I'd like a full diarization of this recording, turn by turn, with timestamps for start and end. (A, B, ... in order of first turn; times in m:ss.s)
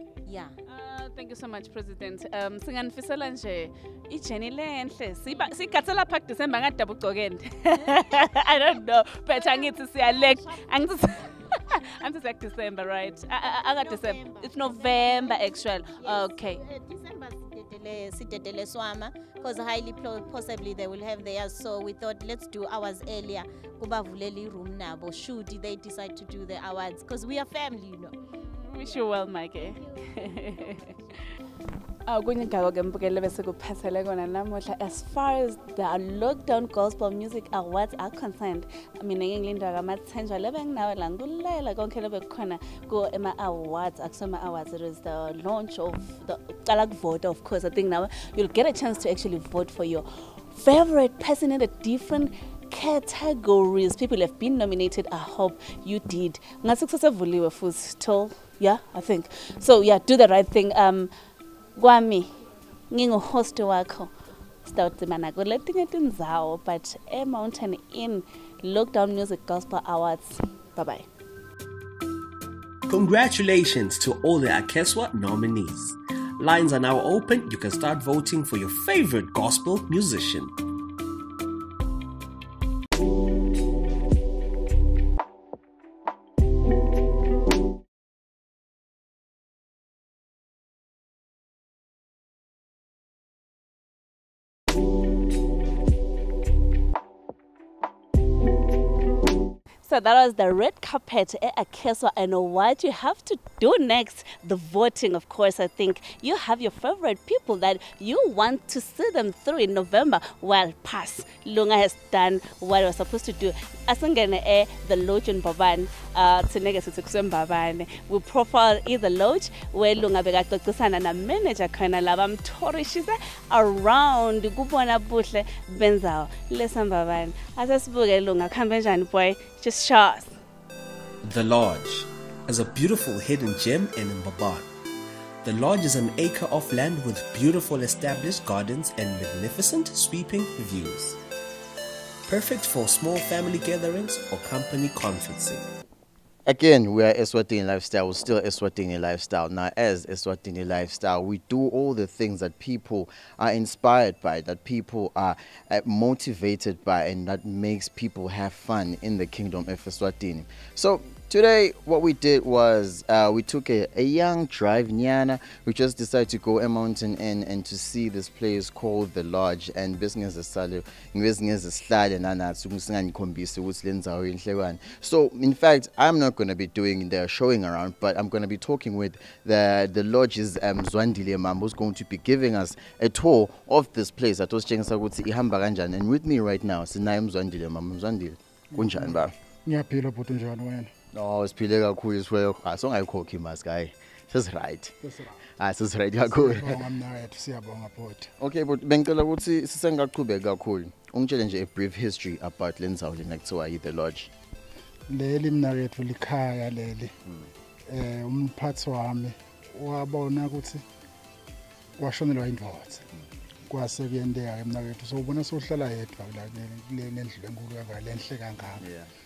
0:00.2-0:00.6 A
0:00.7-0:16.6 B
0:05.3-0:05.8 A
0:07.7-0:08.5 A
0:09.3-0:10.7 A
0:13.8-0:28.2 A
0:28.4-0:30.8 B
0:28.8-0:31.2 A
0:32.1-1:01.1 B
1:01.8-1:02.3 B
1:02.9-1:04.1 B
1:04.6-1:11.1 B
1:12.9-1:20.5 C
1:39.8-2:10.4 B
2:11.2-2:14.7 C
2:15.4-2:21.2 C
2:22.3-2:25.7 C
2:26.5-3:09.3 D
3:08.7-3:10.9 E
3:11.1-3:15.0 D
3:15.0-3:15.5 E
3:15.6-3:16.8 D
3:16.3-3:18.3 E
3:18.4-3:24.3 D
3:25.1-3:27.2 E
3:27.9-3:30.8 E
3:32.0-3:33.1 E
3:33.7-3:38.8 E
3:38.8-3:39.1 D